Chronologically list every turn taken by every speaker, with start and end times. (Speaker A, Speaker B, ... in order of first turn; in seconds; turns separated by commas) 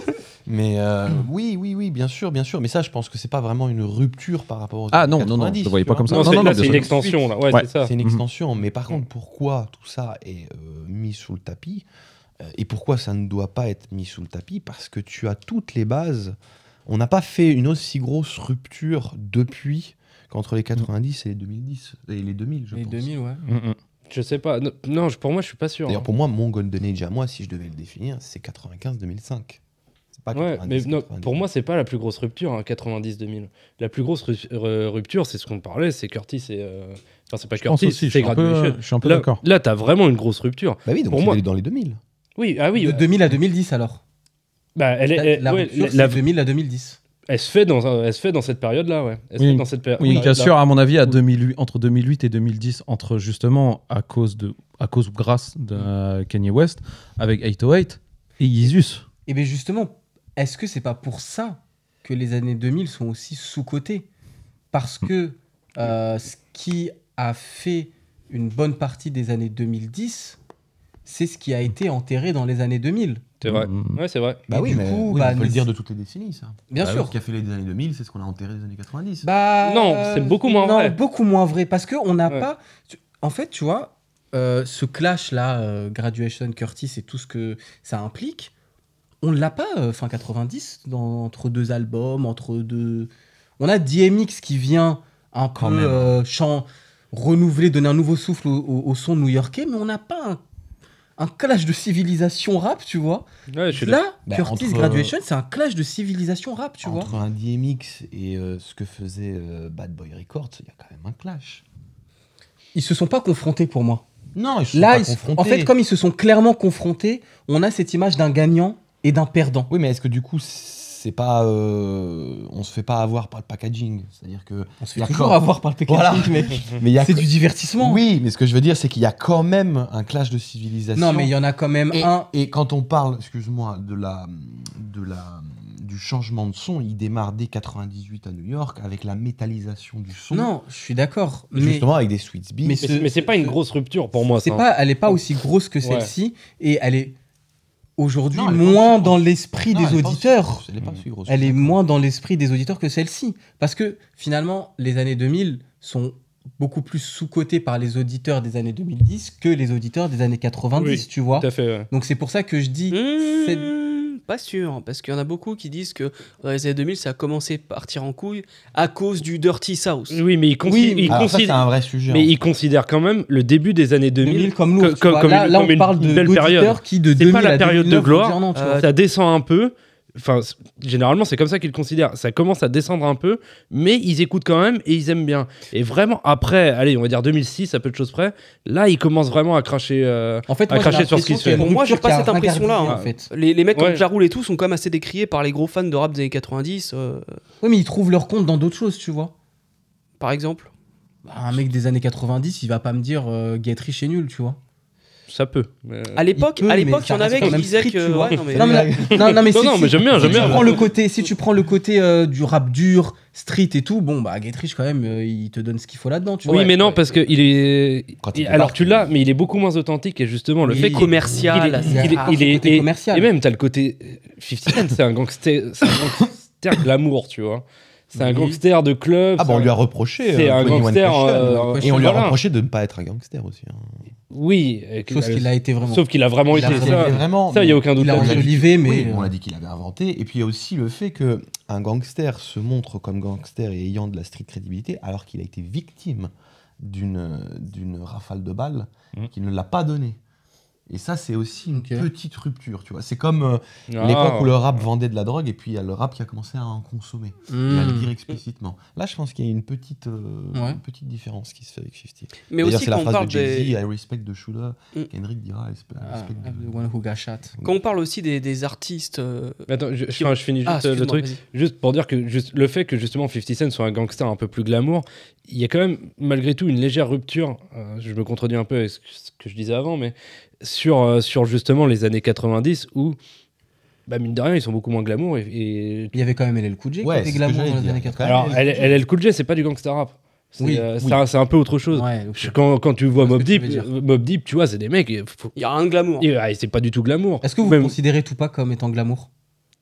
Speaker A: 0.5-6.9, Speaker B: 4.9-7.0, Speaker C: 6.1-7.9, Speaker B: 7.5-8.2, Speaker A: 7.8-11.8, Speaker A: 12.4-16.3, Speaker A: 16.9-23.1, Speaker D: 22.7-23.4, Speaker B: 23.4-23.8, Speaker C: 24.1-26.0, Speaker A: 25.9-29.6, Speaker A: 30.1-31.4, Speaker C: 30.3-41.4, Speaker B: 37.6-39.4, Speaker A: 40.9-42.0, Speaker C: 42.4-43.1, Speaker D: 42.7-44.0, Speaker C: 44.7-46.2, Speaker D: 45.1-47.0, Speaker C: 47.3-50.5, Speaker B: 49.4-59.0, Speaker A: 50.0-50.4, Speaker D: 59.2-64.1, Speaker D: 64.7-70.4, Speaker D: 71.0-73.2, Speaker C: 73.4-74.4, Speaker B: 73.4-74.0, Speaker A: 74.5-79.3, Speaker D: 74.5-75.7, Speaker D: 76.7-77.2, Speaker D: 79.2-88.5, Speaker C: 79.6-81.0, Speaker D: 89.2-100.4, Speaker A: 95.6-96.2, Speaker D: 101.2-107.1, Speaker C: 103.5-104.0, Speaker A: 104.2-105.1, Speaker A: 106.8-111.6, Speaker D: 112.7-114.0, Speaker A: 114.3-115.7, Speaker D: 114.7-119.7, Speaker A: 119.7-131.3, Speaker D: 124.8-128.0, Speaker D: 130.9-132.3, Speaker A: 131.9-140.5, Speaker D: 140.3-141.9, Speaker A: 141.5-142.8, Speaker D: 142.6-143.6, Speaker C: 142.8-144.6, Speaker D: 144.2-147.2, Speaker C: 145.8-146.1, Speaker D: 148.0-150.6, Speaker A: 148.3-151.8, Speaker D: 151.2-163.7, Speaker C: 160.8-161.9, Speaker E: 162.9-170.2, Speaker C: 170.1-191.7, Speaker A: 170.7-172.3, Speaker D: 174.2-178.9, Speaker E: 178.5-178.9, Speaker D: 190.5-193.3, Speaker E: 191.4-197.3, Speaker C: 192.8-193.1, Speaker C: 193.7-194.0, Speaker D: 197.6-199.3, Speaker E: 200.2-200.7, Speaker D: 201.2-204.6, Speaker C: 205.3-206.2, Speaker E: 206.1-208.9, Speaker D: 206.3-216.8, Speaker A: 208.5-209.4, Speaker C: 209.1-210.8, Speaker A: 210.1-210.8, Speaker C: 216.4-229.7, Speaker E: 216.5-217.0, Speaker A: 218.2-219.1, Speaker D: 220.6-221.1, Speaker E: 220.7-222.3, Speaker A: 220.7-221.1, Speaker D: 221.8-223.3, Speaker D: 228.1-228.6, Speaker A: 229.4-234.0, Speaker C: 230.2-232.4, Speaker D: 231.2-232.3, Speaker C: 234.3-238.6, Speaker D: 235.1-237.2, Speaker A: 236.5-250.2, Speaker D: 237.9-239.3, Speaker A: 250.9-266.7, Speaker D: 251.7-252.1, Speaker C: 253.9-254.5, Speaker D: 257.5-258.1, Speaker D: 260.5-260.8, Speaker E: 262.5-263.7, Speaker D: 266.0-267.5, Speaker E: 267.6-271.4, Speaker C: 269.7-283.2, Speaker C: 284.1-286.1, Speaker D: 286.1-288.8, Speaker A: 287.0-288.9, Speaker C: 288.2-295.5, Speaker D: 290.6-290.9, Speaker D: 291.9-292.6, Speaker D: 293.1-293.9, Speaker E: 295.6-296.3, Speaker C: 296.2-297.9, Speaker D: 297.4-299.3